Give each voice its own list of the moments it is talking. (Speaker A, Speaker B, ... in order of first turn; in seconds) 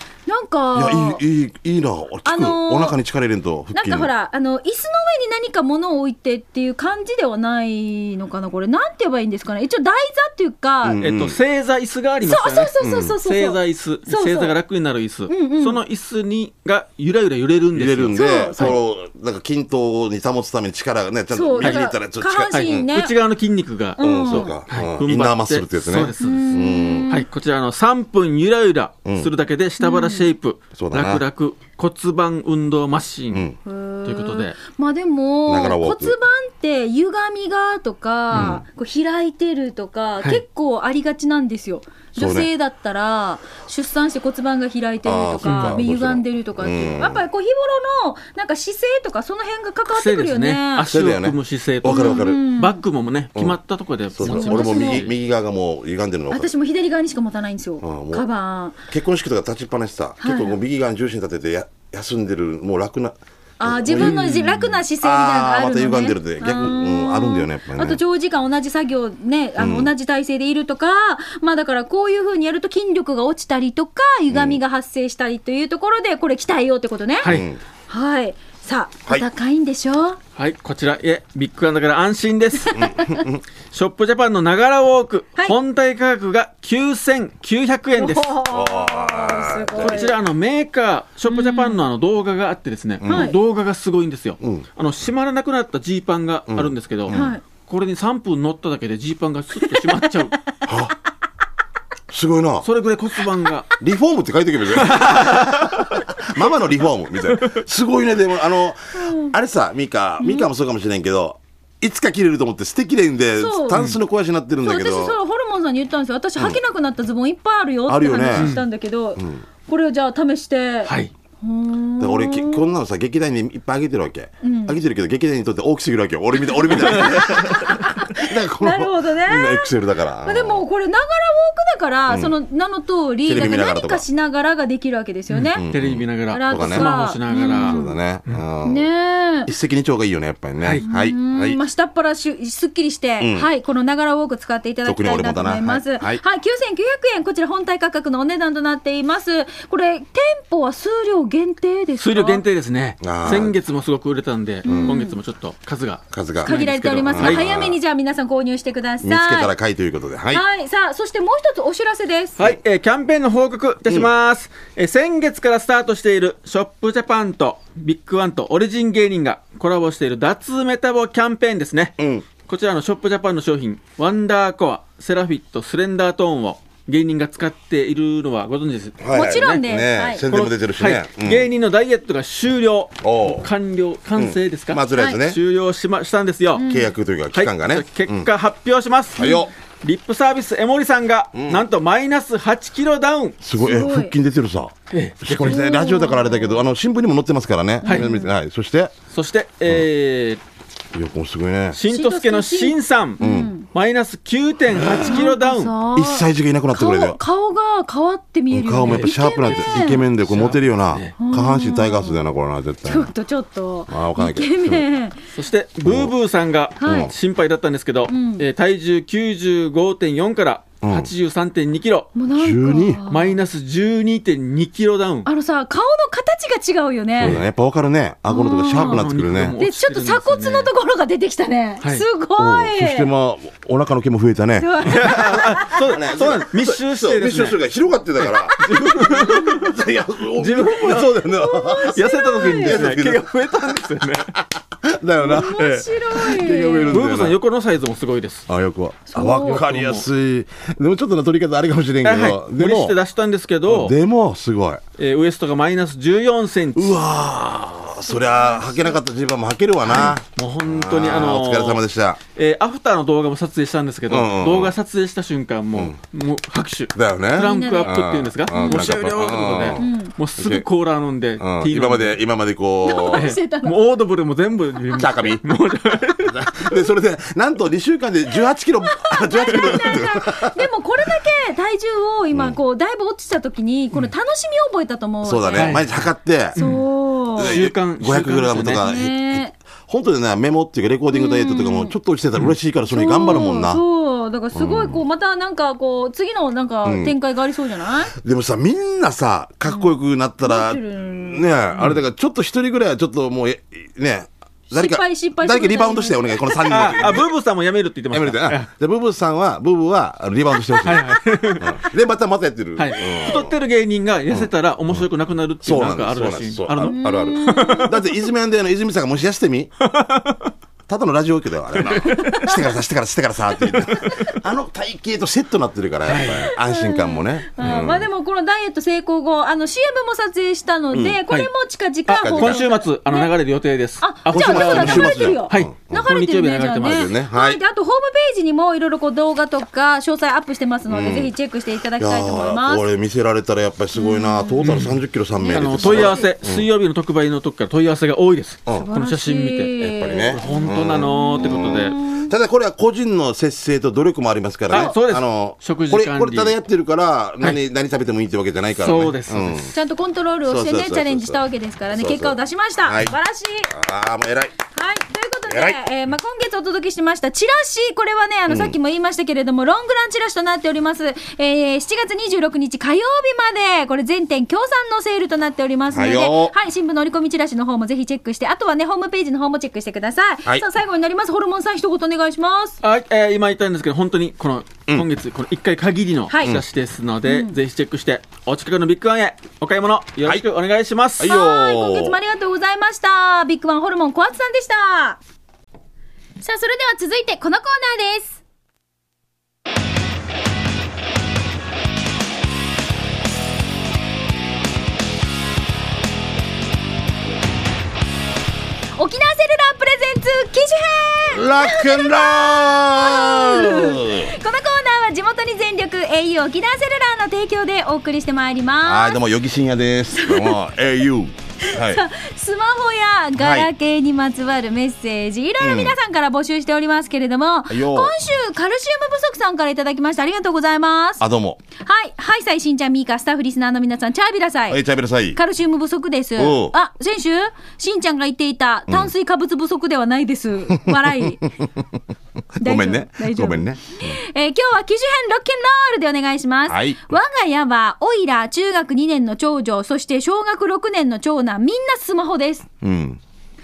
Speaker A: 0.3-1.2, 2.2-3.0, 3.7-11.0, 12.2-14.5, 15.3-15.8, 18.1-18.8, 21.3-23.1, 24.0-24.5, 26.2-27.2, 29.8-30.3, 33.6-50.9, 51.8-52.8, 54.2-55.0, 56.3-58.8, 60.2-60.6, 63.6-77.3, 77.9-80.2, 82.7-83.2, 88.0-90.1, 91.3-91.8, 93.1-93.3, 97.1-97.4, 99.6-100.0, 109.0-109.3, 110.2-110.5, 113.4-113.8, 114.6-122.7, 124.4-124.8, 126.9-129.7, 130.2-135.6, 136.3-138.0, 138.6-139.5, 140.8-152.4, 154.6-155.2, 156.4-159.5, 160.3-162.4, 179.1-180.2, 186.5-186.9, 189.2-189.5, 193.6-194.1, 195.4-196.6, 197.8-198.3, 201.9-203.7, 205.0-210.0, 211.2-212.2, 212.8-215.2, 216.8-217.1, 218.1-218.4, 222.2-223.3, 225.2-227.4, 228.3-233.1, 234.6-235.8, 238.5-239.7, 241.2-242.8, 245.2-247.0, 249.1-249.6, 258.1-259.0, 267.4-268.9, 269.7-270.1, 272.8-273.8, 278.9-285.8, 286.5-287.6, 288.8-289.5, 291.1-291.9, 292.9-298.1, 300.4-301.5, 304.7-307.0, 316.8-317.9, 322.0-322.6, 324.0-324.3, 326.5-333.3, 334.0-342.8, 343.9-344.8, 345.4-346.2, 348.7-352.3, 359.7-363.7, 364.7-382.8, 386.3-386.6, 387.2-387.6, 391.2-395.2, 396.4-398.4, 408.9-419.2, 420.1-420.6, 421.6-431.2, 431.8-434.8, 435.3-441.5, 442.6-452.7
Speaker B: 0.7-4.1, 10.8-11.4, 12.8-13.2, 17.7-22.9, 24.0-27.2, 30.8-31.2, 33.3-33.6, 35.5-36.1, 38.3-38.6, 42.1-42.5, 45.0-47.2, 50.9-52.4, 54.1-56.5, 57.8-58.2, 58.9-64.3, 65.0-68.0, 69.6-69.9, 74.3-74.6, 77.2-77.6, 82.7-83.4, 88.4-90.0, 93.0-93.3, 94.4-94.7, 96.5-97.3, 100.7-100.9, 102.1-102.7, 103.8-115.2, 117.9-118.6, 119.2-119.4, 122.0-130.7, 132.1-132.3, 133.2-134.0, 135.5-138.9, 139.4-141.6, 143.2-143.5, 144.8-146.2, 153.0-153.6, 154.7-155.0, 156.1-157.8, 159.0-160.4, 172.0-172.2, 179.0-181.5, 183.0-183.5, 184.2-185.4, 186.7-188.3, 189.2-189.5, 191.3-191.6, 193.4-198.9, 200.9-201.8, 203.2-203.5, 204.8-205.2, 205.9-207.2, 208.5-213.1, 213.9-214.8, 215.8-216.1, 216.8-217.1, 220.8-221.1, 222.3-223.0, 227.2-229.6, 232.4-243.2, 244.8-247.4, 248.5-252.9, 253.7-254.8, 256.7-262.2, 264.1-264.7, 266.9-270.6, 271.4-273.3, 274.9-275.4, 276.2-280.6, 285.2-286.6, 287.4-293.8, 294.5-295.0, 296.8-297.1, 298.1-307.3, 308.1-313.5, 314.3-315.0, 315.6-319.7, 320.9-328.1, 330.9-331.2, 332.2-332.6, 334.3-336.1, 336.8-337.6, 340.9-341.3, 342.0-346.7, 349.8-359.7, 360.4-361.4, 361.9-363.1, 363.7-364.5, 365.5-365.8, 368.5-368.8, 375.9-376.5, 391.2-392.2, 411.3-414.3, 418.8-422.0, 423.4-423.7, 425.6-425.9, 427.7-428.1, 431.2-431.6, 434.7-435.4, 436.4-436.7, 440.7-441.2, 442.6-444.2, 446.7-447.1, 452.8-453.2
Speaker C: 11.0-18.7, 21.6-21.9, 22.5-26.5, 27.1-33.5, 34.0-34.6, 38.3-38.6, 45.5-45.8, 49.9-55.1, 63.9-64.7, 77.2-77.5, 80.3-82.8, 83.7-88.4, 89.8-100.3, 102.6-103.7, 104.8-106.0, 118.3-118.6, 135.3-138.4, 152.0-157.6, 162.4-179.6, 180.3-186.6, 187.3-193.4, 194.9-195.6, 197.8-198.1, 199.1-200.4, 201.7-205.7, 208.8-211.1, 215.3-222.1, 223.1-225.3, 228.7-230.7, 234.8-237.6, 238.2-239.6, 240.4-241.2, 241.8-244.3, 245.5-245.9, 246.8-248.5, 249.3-250.1, 252.0-253.9, 255.0-257.0, 259.9-261.8, 262.3-272.2, 273.1-276.7, 285.6-285.9, 286.5-286.8, 287.4-288.8, 306.7-308.7, 310.8-311.7, 312.8-318.1, 319.8-320.5, 321.8-322.6, 323.7-324.3, 326.0-326.5, 332.1-337.1, 344.6-349.8, 350.3-352.0, 354.7-356.6, 358.8-359.6, 382.8-391.3